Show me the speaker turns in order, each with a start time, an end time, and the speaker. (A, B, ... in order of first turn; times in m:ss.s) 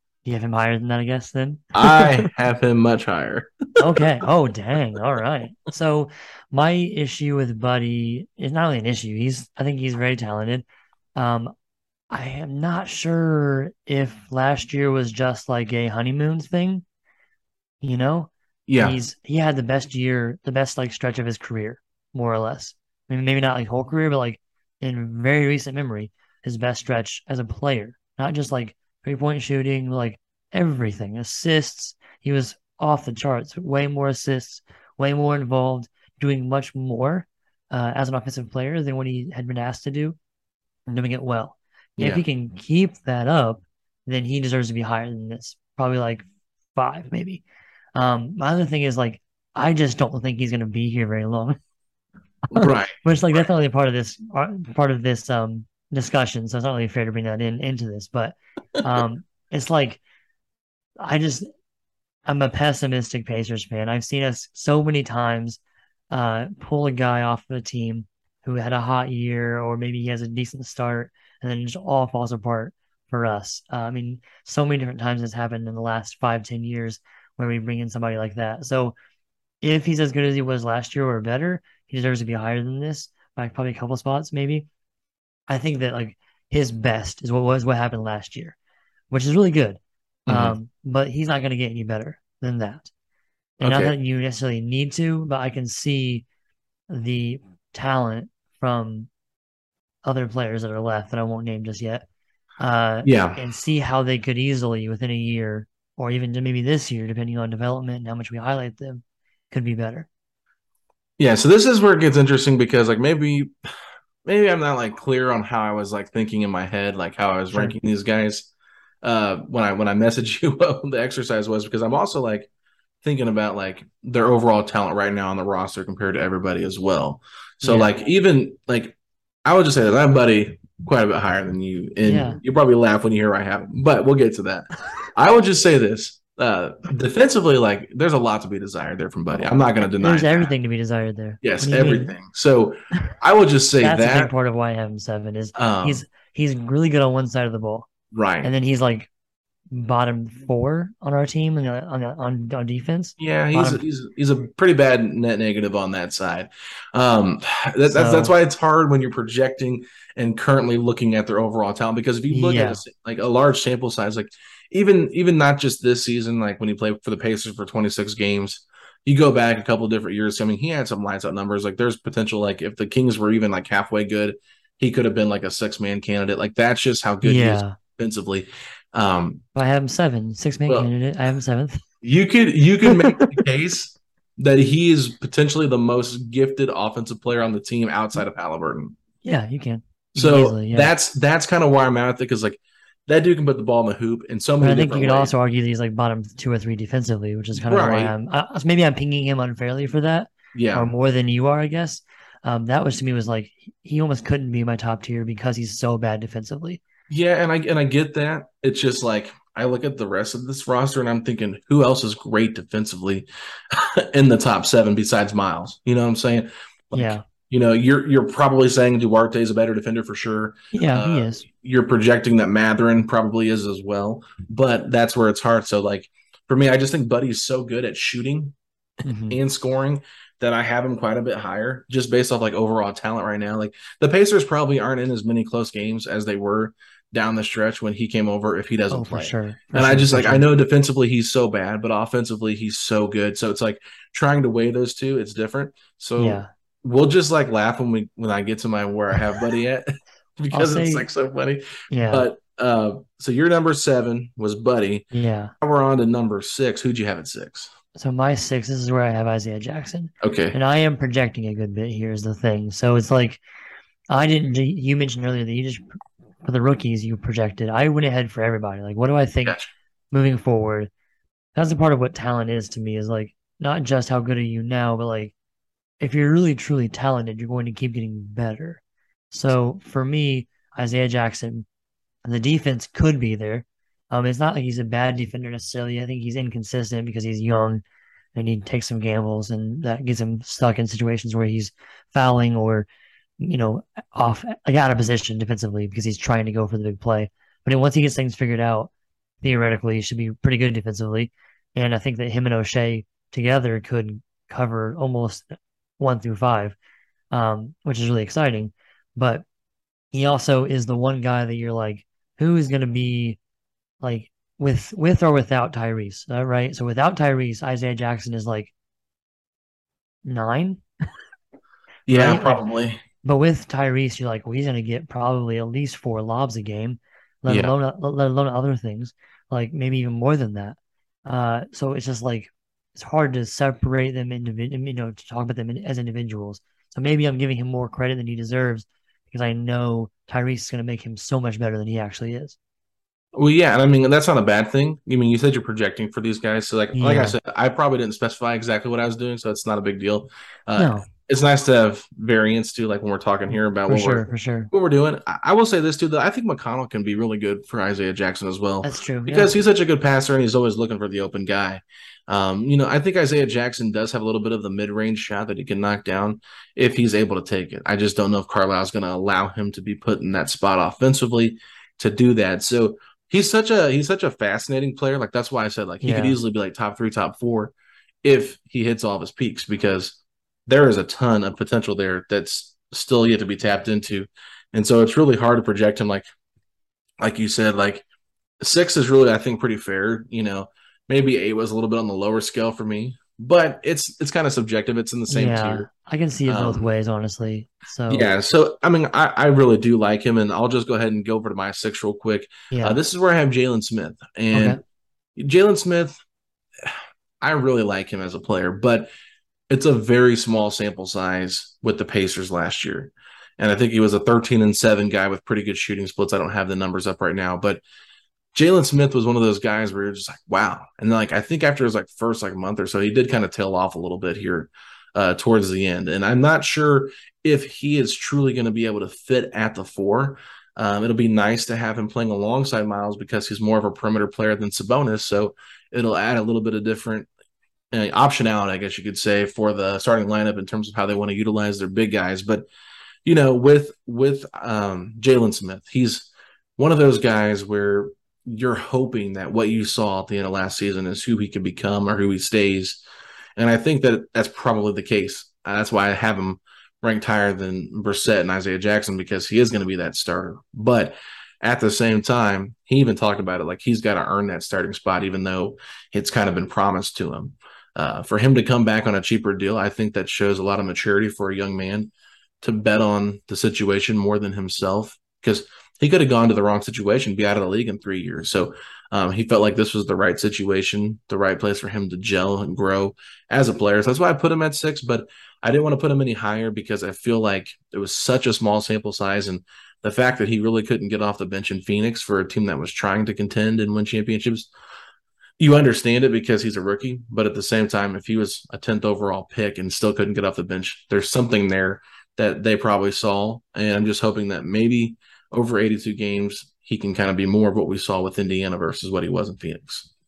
0:00.2-0:02.3 A
0:01.8-0:04.0 B
0:03.8-0:10.6 A
0:11.2-0:11.5 A
0:12.1-0:16.8 A
0:17.8-0:40.2 A
0:18.7-0:19.0 B
0:40.9-0:46.2 A
0:42.0-0:42.2 B
0:46.8-0:47.4 A
0:48.0-0:51.6 A
0:52.5-0:53.0 B
0:52.6-1:00.0 A
1:01.0-1:01.5 A
1:02.3-1:05.6 A
1:06.1-1:19.0 A
1:19.6-1:24.7 A
1:25.5-1:28.6 A
1:29.1-1:32.9 A
1:30.3-1:30.6 B
1:33.6-1:36.2 A
1:33.6-1:33.9 B
1:36.9-1:39.1 A
1:40.0-1:42.0 A
1:42.6-1:50.1 A
1:43.0-1:43.4 B
1:51.2-1:53.5 B
1:54.2-1:58.5 B
1:59.0-2:02.5 B
2:03.0-2:20.5 B
2:07.6-2:07.9 A
2:12.0-2:12.4 A
2:20.0-2:22.1 A
2:21.4-2:24.3 B
2:23.8-2:27.9 A
2:25.6-2:26.0 B
2:28.1-2:28.5 B
2:28.4-2:29.1 A
2:29.7-2:33.8 A
2:33.2-2:59.4 B
2:37.9-2:38.3 A
2:42.3-2:42.8 A
2:57.2-2:57.7 A
2:59.5-3:01.8 A
3:02.0-3:08.9 B
3:02.8-3:03.4 A
3:09.2-3:10.9 A
3:10.1-3:15.3 B
3:14.6-3:26.8 A
3:17.5-3:18.1 B
3:20.5-3:20.9 B
3:27.1-3:48.5 B
3:36.9-3:37.2 A
3:40.7-3:41.4 A
3:49.0-3:49.4 A
3:49.3-4:15.1 B
3:58.9-4:00.4 A
4:06.2-4:06.5 A
4:10.5-4:11.0 A
4:11.9-4:12.2 A
4:15.1-4:15.5 A
4:15.6-4:17.7 B
4:18.0-4:23.4 A
4:20.2-4:20.6 B
4:24.1-4:25.9 A
4:26.4-4:29.6 A
4:29.4-4:29.7 B
4:30.1-4:30.9 A
4:31.6-4:35.3 A
4:36.0-4:38.8 A
4:39.3-4:41.6 A
4:42.2-4:47.8 A
4:48.3-4:52.9 A
4:53.4-4:58.9 A
4:59.4-5:06.8 A
5:07.3-5:09.4 A
5:10.1-5:13.4 A
5:14.0-5:18.7 A
5:20.2-5:20.8 A
5:22.1-5:23.0 B
5:22.1-5:22.6 A
5:23.2-5:42.6 A
5:27.5-5:27.7 B
5:43.3-6:17.7 B
5:46.9-5:47.4 A
5:50.8-5:51.0 A
5:53.5-5:54.7 A
5:58.8-5:59.5 A
6:16.0-6:16.4 A
6:18.2-6:26.3 B
6:27.2-6:28.0 B
6:28.6-6:35.9 B
6:35.3-6:38.3 A
6:36.5-6:36.9 B
6:38.1-6:44.8 B
6:42.7-6:43.0 A
6:44.5-6:44.8 A
6:45.4-6:46.2 B
6:46.8-6:49.1 B
6:49.7-6:57.8 B
6:58.5-7:17.3 B
7:17.9-7:22.6 B
7:23.2-7:33.0 B
7:33.6-7:52.1 B
7:52.6-8:14.7 B
8:15.6-8:30.1 B